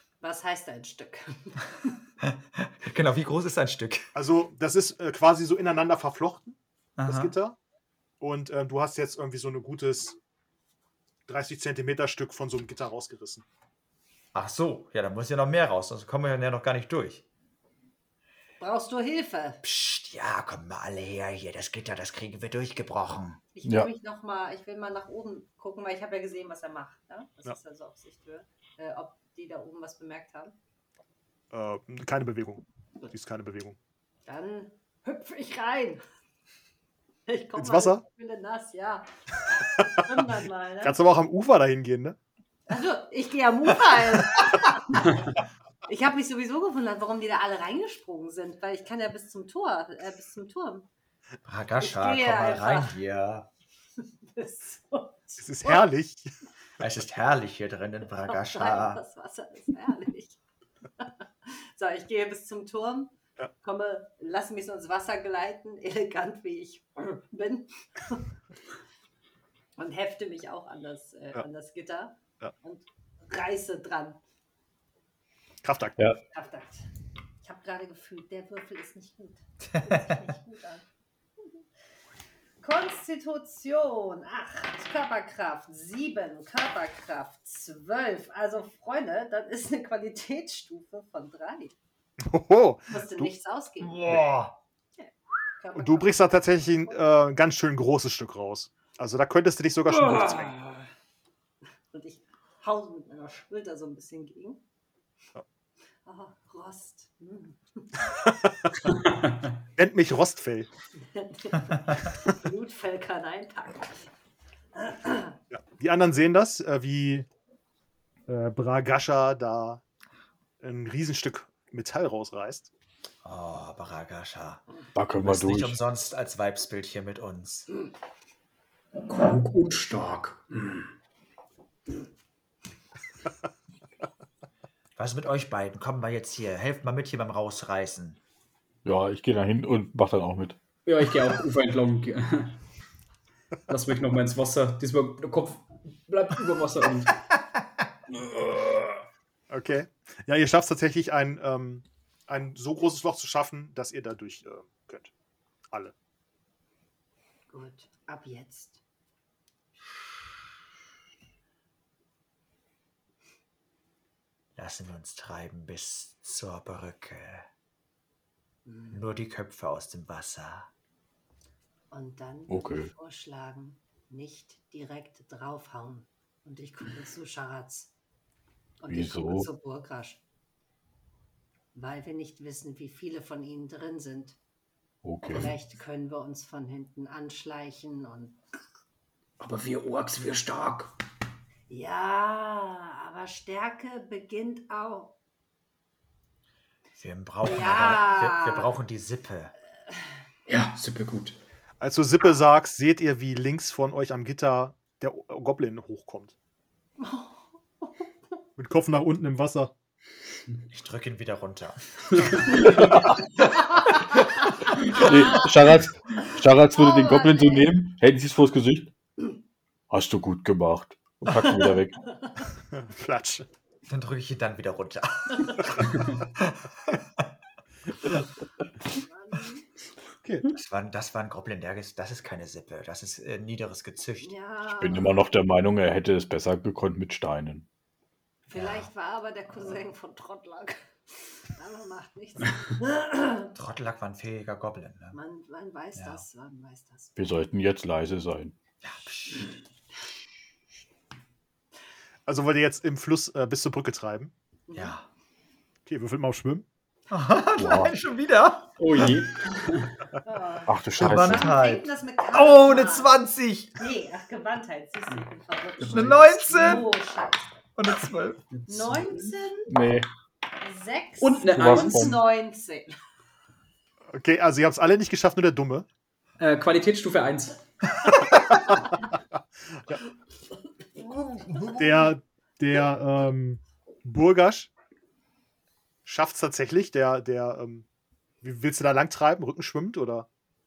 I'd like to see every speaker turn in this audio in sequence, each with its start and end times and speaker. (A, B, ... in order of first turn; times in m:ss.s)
0:00.2-0:01.9 A
0:02.2-0:04.1 B
0:04.1-0:07.6 C
0:07.0-0:07.3 B
0:08.2-0:10.2 C
0:11.3-0:13.4 C
0:14.3-0:17.2 B
0:18.6-0:19.6 A
0:19.6-0:23.4 B
0:23.5-0:30.5 A
0:31.5-0:33.8 C
0:34.2-0:36.0 A
0:37.3-0:39.1 A
0:37.6-0:38.0 C
0:39.6-0:41.0 A
0:40.8-0:42.2 C
0:42.7-0:45.1 A
0:45.8-0:50.9 A
0:51.4-0:53.5 B
0:51.8-0:53.0 A
0:54.3-0:55.7 A
0:55.4-0:56.3 C
0:56.8-0:59.0 B
0:58.3-1:00.4 A
1:01.0-1:08.2 A
1:09.8-1:14.2 A
1:15.6-1:16.0 C
1:16.3-1:16.8 A
1:17.4-1:20.8 A
1:22.6-1:31.7 A
1:32.2-1:33.3 C
1:32.9-1:34.2 A
1:33.8-1:34.6 B
1:35.0-1:36.2 A
1:35.7-1:40.6 C
1:41.9-1:44.6 A
1:46.0-1:48.0 A
1:48.2-1:48.7 C
1:49.8-1:50.7 C
1:51.0-1:54.1 A
1:54.8-1:55.4 A
1:55.5-1:57.3 C
1:58.3-1:59.8 C
2:00.6-2:02.7 C
2:03.2-2:04.6 B
2:04.9-2:05.8 D
2:05.2-2:07.7 B
2:09.0-2:10.9 E
2:15.0-2:18.2 B
2:18.8-2:20.6 D
2:20.8-2:22.6 E
2:23.7-2:27.2 E
2:28.1-2:29.0 E
2:29.5-2:35.1 C
2:37.5-2:38.8 A
2:44.6-2:47.5 B
2:48.6-2:49.0 A
2:48.9-2:50.7 B
2:51.9-2:57.9 A
2:52.5-2:52.9 D
2:58.8-3:00.2 A
2:58.9-2:59.5 D
3:01.7-3:04.4 A
3:05.0-3:05.5 D
3:05.3-3:08.4 A
3:09.4-3:10.9 E
3:11.7-3:15.1 A
3:17.0-3:19.5 B
3:17.4-3:18.7 A
3:20.5-3:21.4 E
3:21.8-3:26.3 C
3:27.0-3:27.3 A
3:28.6-3:29.7 C
3:30.7-3:32.8 B
3:32.5-3:33.2 D
3:33.8-3:34.3 A
3:34.9-3:38.9 D
3:35.0-3:35.3 A
3:36.7-3:37.7 A
3:39.9-3:42.0 D
3:42.0-3:42.4 A
3:42.7-3:43.4 C
3:43.9-3:46.9 B
3:48.9-3:49.6 A
3:50.5-3:54.3 B
3:54.2-3:55.2 A
3:54.7-3:57.6 D
3:58.5-4:03.5 A
3:58.5-3:58.9 B
4:03.5-4:05.2 B
4:05.1-4:07.1 A
4:05.9-4:06.2 B
4:07.2-4:08.5 D
4:08.8-4:09.5 B
4:12.3-4:14.3 C
4:14.7-4:14.9 A
4:14.7-4:15.1 B
4:15.8-4:16.6 C
4:17.1-4:19.1 B
4:17.6-4:17.9 D
4:18.8-4:20.0 E
4:20.2-4:23.2 A
4:20.7-4:21.6 D
4:21.0-4:23.8 B
4:23.8-4:27.6 A
4:25.8-4:26.8 E
4:25.9-4:26.9 B
4:27.8-4:28.5 B
4:28.7-4:29.7 A
4:28.7-4:29.0 E
4:29.7-4:30.1 D
4:30.6-4:32.9 A
4:31.2-4:32.2 E
4:31.5-4:32.2 D
4:34.1-4:35.9 C
4:36.4-4:37.6 E
4:39.7-4:40.0 C
4:41.0-4:41.8 B
4:41.7-4:44.7 C
4:46.0-4:47.8 C
4:48.4-4:50.3 C